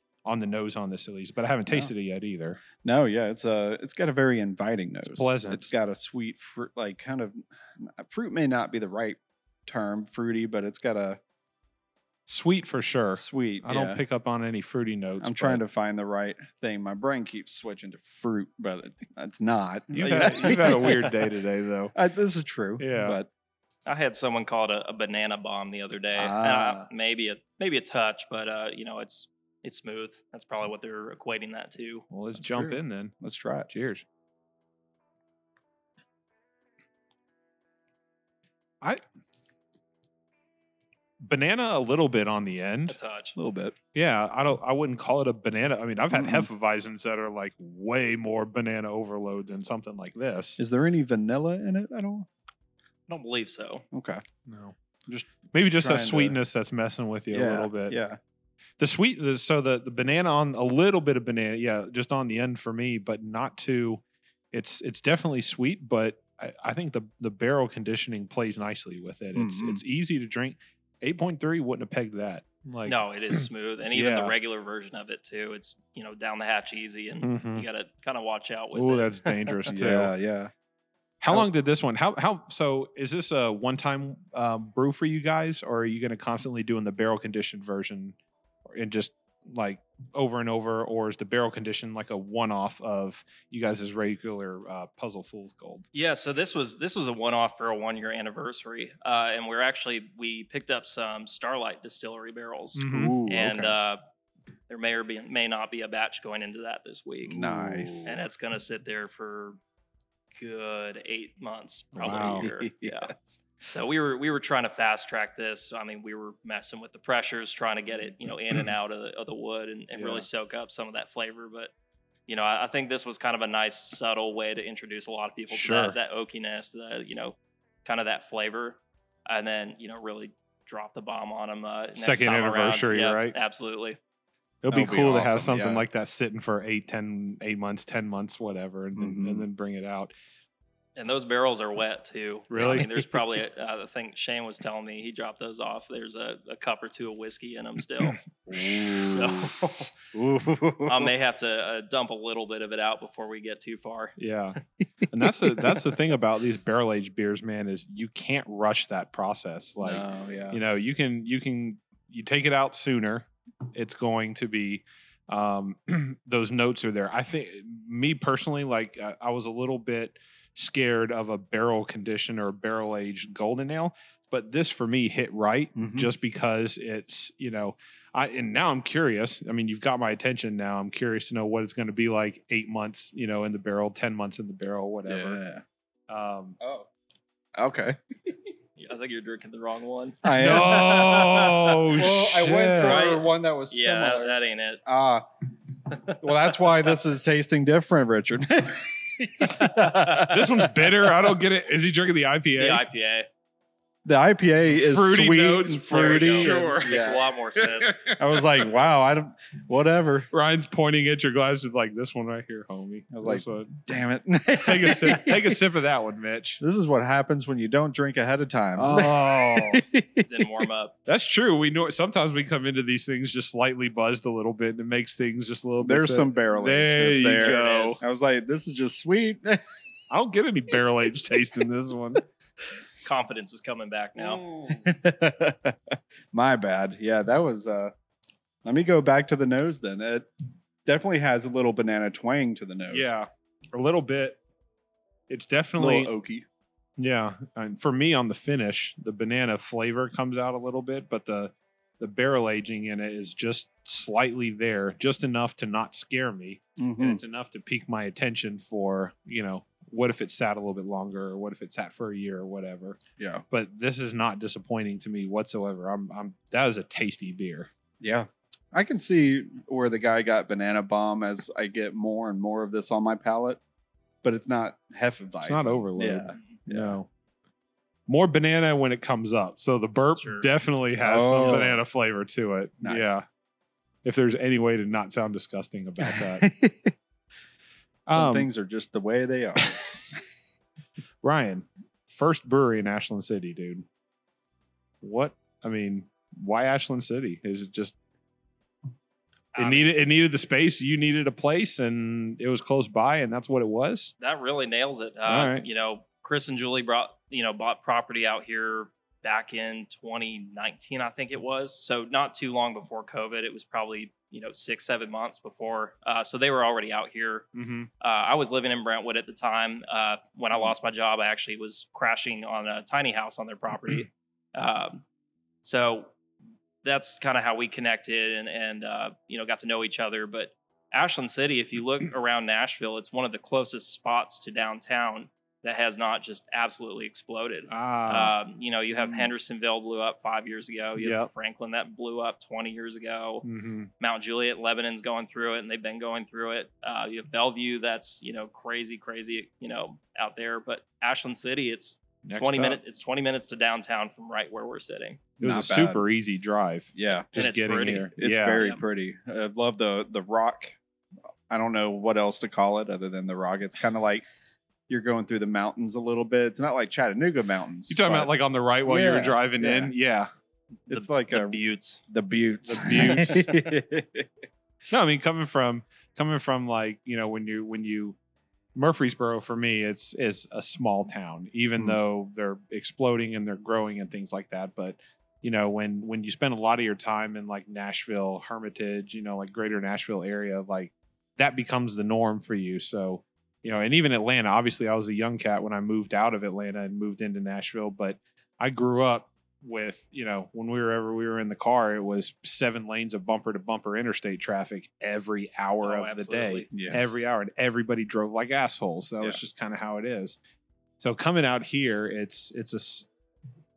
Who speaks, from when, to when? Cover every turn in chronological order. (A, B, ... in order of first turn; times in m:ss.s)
0:00.2-0:02.6 A
0:02.8-0:11.2 B
0:05.1-0:05.7 A
0:12.3-0:15.6 A
0:13.2-0:14.0 B
0:15.2-0:21.2 B
0:19.9-0:22.0 A
0:22.0-0:23.3 B
0:22.8-0:23.2 A
0:23.9-0:32.1 C
0:26.2-0:26.9 B
0:32.1-0:33.1 A
0:32.4-0:33.7 B
0:33.7-0:34.0 A
0:41.2-0:43.0 A
0:42.9-0:43.4 C
0:43.4-0:43.8 B
0:43.9-0:50.6 A
0:46.1-0:46.5 B
0:50.6-0:52.3 B
0:53.1-0:53.8 C
0:53.9-0:54.2 B
0:54.5-0:54.8 A
0:55.1-0:56.4 B
0:55.5-0:58.0 A
0:57.3-0:58.2 B
0:58.8-1:14.4 A
1:09.4-1:09.8 B
1:12.9-1:19.6 C
1:17.2-1:17.6 A
1:18.7-1:20.1 A
1:19.7-1:20.5 B
1:21.2-1:28.2 A
1:28.7-1:35.9 A
1:35.9-1:44.0 C
1:42.8-1:43.2 A
1:42.9-1:43.7 B
1:44.7-1:47.4 C
1:47.3-1:48.1 B
1:47.4-1:48.1 A
1:48.1-1:49.6 C
1:50.3-1:53.1 C
1:52.0-1:52.5 A
1:52.0-1:53.4 B
1:53.6-2:01.7 C
2:00.0-2:00.2 B
2:02.3-2:14.0 C
2:05.5-2:06.0 A
2:12.0-2:13.4 A
2:14.6-2:20.1 A
2:14.7-2:15.8 B
2:19.0-2:19.4 B
2:21.0-2:29.9 C
2:22.5-2:22.9 A
2:22.6-2:22.9 B
2:28.5-2:28.8 A
2:28.5-2:29.5 B
2:30.1-2:31.1 B
2:30.9-2:34.1 C
2:34.2-3:05.4 A
2:35.5-2:35.8 B
2:39.8-2:40.6 B
2:55.8-2:56.1 B
3:05.0-3:05.6 B
3:06.1-3:06.6 A
3:06.6-3:06.9 B
3:07.6-3:08.3 B
3:08.8-3:10.2 C
3:10.2-3:15.2 B
3:10.4-3:13.0 A
3:12.8-3:14.8 C
3:15.9-3:16.5 C
3:16.2-3:20.9 B
3:19.5-3:20.3 C
3:20.1-3:22.8 A
3:22.6-3:23.3 C
3:24.1-3:27.2 B
3:24.7-3:28.7 A
3:25.9-3:28.0 C
3:28.1-3:30.3 B
3:30.3-3:34.0 A
3:33.1-3:35.6 B
3:34.5-3:36.6 A
3:36.6-3:40.3 B
3:38.8-3:39.8 A
3:40.2-3:41.0 C
3:41.1-3:48.0 A
3:45.8-3:49.6 B
3:47.3-3:48.0 C
3:50.1-3:52.2 A
3:53.0-3:54.4 C
3:54.3-3:57.9 B
3:58.6-4:00.3 B
4:00.9-4:03.1 B
4:02.9-4:04.4 A
4:05.3-4:06.1 A
4:05.8-4:06.5 B
4:07.0-4:23.0 A
4:16.8-4:17.2 B
4:23.2-4:23.4 B
4:23.5-4:27.7 A
4:28.0-4:33.6 B
4:34.2-4:37.0 B
4:35.4-4:37.1 A
4:38.1-4:43.2 A
4:40.2-4:40.5 C
4:41.0-4:41.8 B
4:42.8-4:43.1 B
4:44.0-4:46.5 A
4:46.0-4:46.9 B
4:48.1-4:48.5 A
4:48.1-4:49.8 B
4:51.2-4:53.9 A
4:55.0-4:58.0 A
4:59.5-4:59.9 C
4:59.6-5:04.1 A
5:04.2-5:17.5 C
5:05.2-5:05.6 A
5:17.5-5:17.9 A
5:18.0-5:25.0 C
5:25.6-5:26.1 C
5:26.8-5:43.5 C
5:37.7-5:38.3 A
5:41.0-5:41.3 A
5:43.4-5:43.9 A
5:44.0-5:55.2 C
5:52.2-5:52.8 A
5:55.4-5:56.0 B
5:55.4-5:58.6 A
5:57.0-5:57.3 B
5:57.4-5:58.8 C
5:58.2-6:00.8 B
6:01.5-6:04.2 B
6:04.9-6:08.3 B
6:07.9-6:10.3 A
6:08.8-6:09.9 B
6:10.9-6:14.3 B
6:10.9-6:12.0 C
6:12.6-6:13.5 A
6:13.1-6:13.7 C
6:14.9-6:18.2 A
6:18.8-6:50.4 A
6:45.8-6:46.7 C
6:46.7-6:47.2 B
6:51.0-6:53.1 A